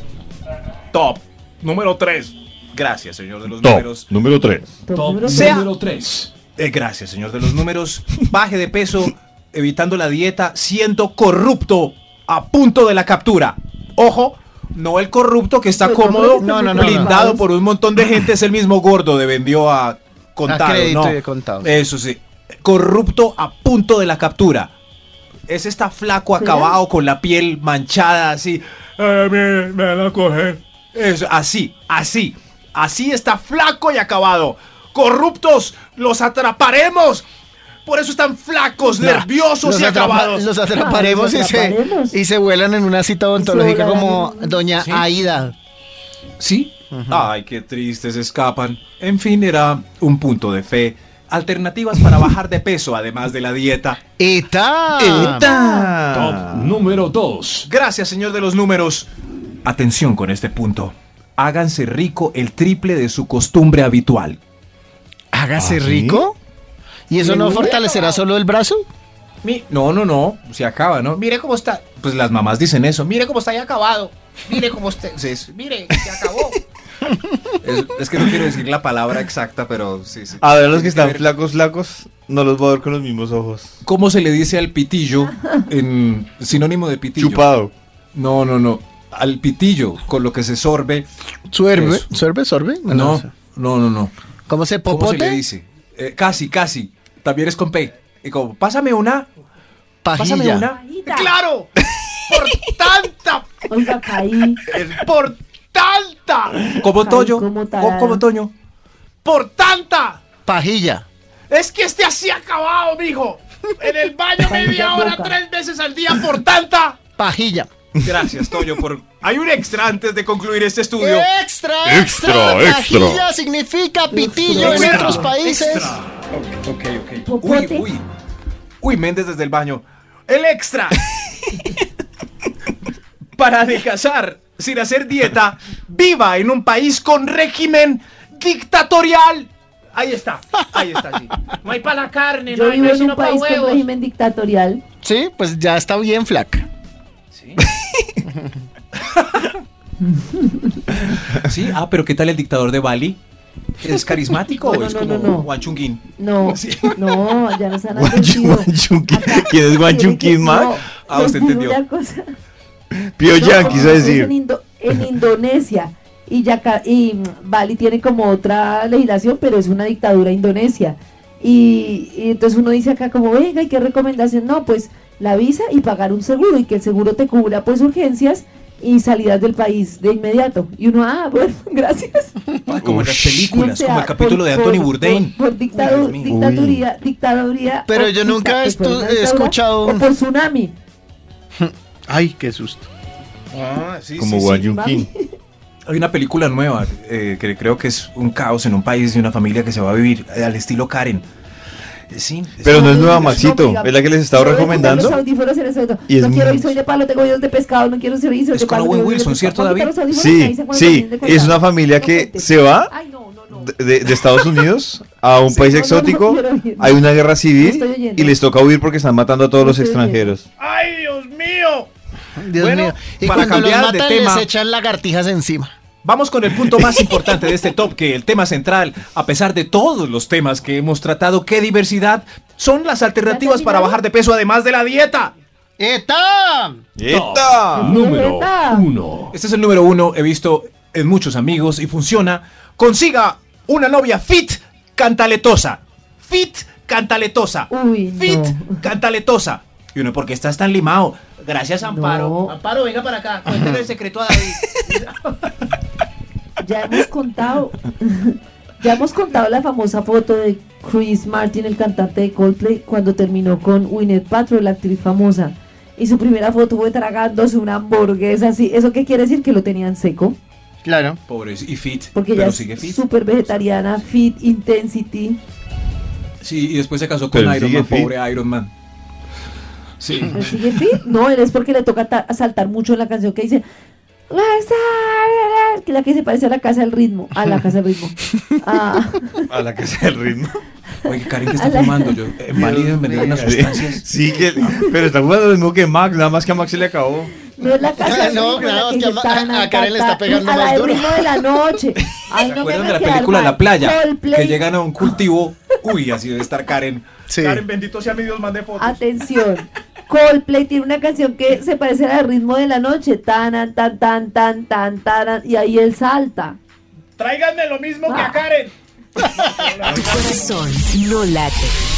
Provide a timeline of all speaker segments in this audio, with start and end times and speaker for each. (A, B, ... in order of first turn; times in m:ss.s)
0:00.9-0:04.1 A
0:03.6-0:04.8 B
0:04.9-0:05.7 C
0:05.0-0:06.3 D
0:05.3-0:05.6 A
0:06.6-0:24.7 A
0:15.8-0:17.4 C
0:16.4-0:17.2 E
0:20.5-0:21.8 E
0:25.5-0:37.3 A
0:26.4-0:26.7 C
0:37.9-0:40.5 A
0:39.0-0:45.6 E
0:40.7-0:42.2 C
0:43.4-0:44.6 C
0:44.8-0:45.0 A
0:46.4-0:54.0 A
0:46.9-0:47.3 E
0:54.2-0:55.4 E
0:55.0-0:56.8 B
0:55.5-0:55.8 C
0:56.1-0:57.7 D
0:57.7-0:59.1 A
0:59.6-1:04.4 A
1:05.3-1:06.4 E
1:05.6-1:06.3 B
1:07.1-1:08.9 E
1:07.2-1:08.2 F
1:07.2-1:07.7 A
1:07.3-1:07.7 C
1:09.4-1:16.6 A
1:11.4-1:11.8 F
1:13.6-1:14.1 F
1:14.7-1:16.4 F
1:17.6-1:21.3 A
1:20.4-1:23.8 B
1:23.8-1:27.4 A
1:27.2-1:27.7 B
1:28.2-1:31.1 A
1:31.5-1:33.3 E
1:31.7-1:32.1 A
1:32.9-1:34.1 A
1:34.5-1:35.4 E
1:34.9-1:39.3 A
1:40.0-1:40.7 E
1:40.2-1:41.7 A
1:40.7-1:41.4 C
1:42.3-1:43.6 A
1:43.7-1:44.6 C
1:44.7-1:48.5 A
1:47.0-1:48.2 C
1:49.2-1:50.2 A
1:50.5-1:51.1 E
1:51.5-1:57.0 A
1:54.4-1:55.4 C
1:57.2-1:57.7 E
1:58.0-1:58.7 B
1:58.0-2:01.3 A
2:01.0-2:06.0 E
2:01.8-2:03.3 B
2:04.1-2:05.3 C
2:04.5-2:08.1 A
2:07.2-2:07.9 C
2:08.8-2:11.0 A
2:13.4-2:21.8 A
2:21.6-2:23.8 F
2:22.5-2:24.8 C
2:25.0-2:26.7 E
2:27.3-2:27.6 A
2:28.2-2:28.6 E
2:29.0-2:29.6 A
2:30.0-2:31.2 C
2:31.3-2:33.2 A
2:33.8-2:37.2 A
2:34.6-2:35.5 C
2:36.2-2:42.2 C
2:37.9-2:40.8 B
2:41.1-2:41.8 A
2:42.9-2:44.3 B
2:43.3-3:02.3 C
2:43.6-2:44.0 A
3:02.7-3:06.3 A
3:02.8-3:03.4 B
3:03.5-3:10.7 C
3:06.2-3:06.8 B
3:07.9-3:10.0 E
3:11.6-3:12.9 E
3:13.5-3:14.7 A
3:14.2-3:15.1 B
3:14.6-3:15.3 C
3:15.9-3:21.3 A
3:22.1-3:23.5 A
3:22.6-3:25.2 B
3:22.7-3:33.7 C
3:24.7-3:25.2 A
3:26.1-3:26.8 B
3:28.5-3:30.0 A
3:30.1-3:32.9 B
3:33.5-3:40.4 B
3:35.5-3:37.0 C
3:37.6-3:38.4 C
3:39.6-3:40.3 C
3:40.6-3:41.9 A
3:42.4-3:45.7 E
3:42.6-3:44.5 A
3:46.0-3:55.3 A
3:46.7-3:47.3 E
3:53.3-3:54.0 C
3:55.8-3:56.8 E
3:57.0-3:57.9 B
3:57.1-3:59.3 D
3:57.8-3:58.9 C
3:59.3-4:15.1 A
4:07.7-4:08.8 C
4:11.8-4:12.6 C
4:12.7-4:13.2 F
4:13.5-4:13.8 E
4:16.6-4:30.4 C
4:30.8-4:31.2 E
4:31.3-4:34.0 A
4:32.2-4:35.4 C
4:36.4-4:38.7 A
4:37.3-4:38.1 B
4:40.0-4:40.6 A
4:40.3-4:43.6 C
4:44.3-4:49.5 C
4:49.5-4:50.6 B
4:51.0-4:54.0 A
4:51.6-4:52.1 C
4:52.5-4:53.5 E
4:53.4-4:57.3 B
4:57.6-5:04.6 C
4:58.0-5:01.4 E
5:02.3-5:09.0 A
5:07.3-5:07.6 E
5:08.8-5:16.6 C
5:17.2-5:20.6 A
5:18.1-5:18.5 C
5:19.8-5:21.8 G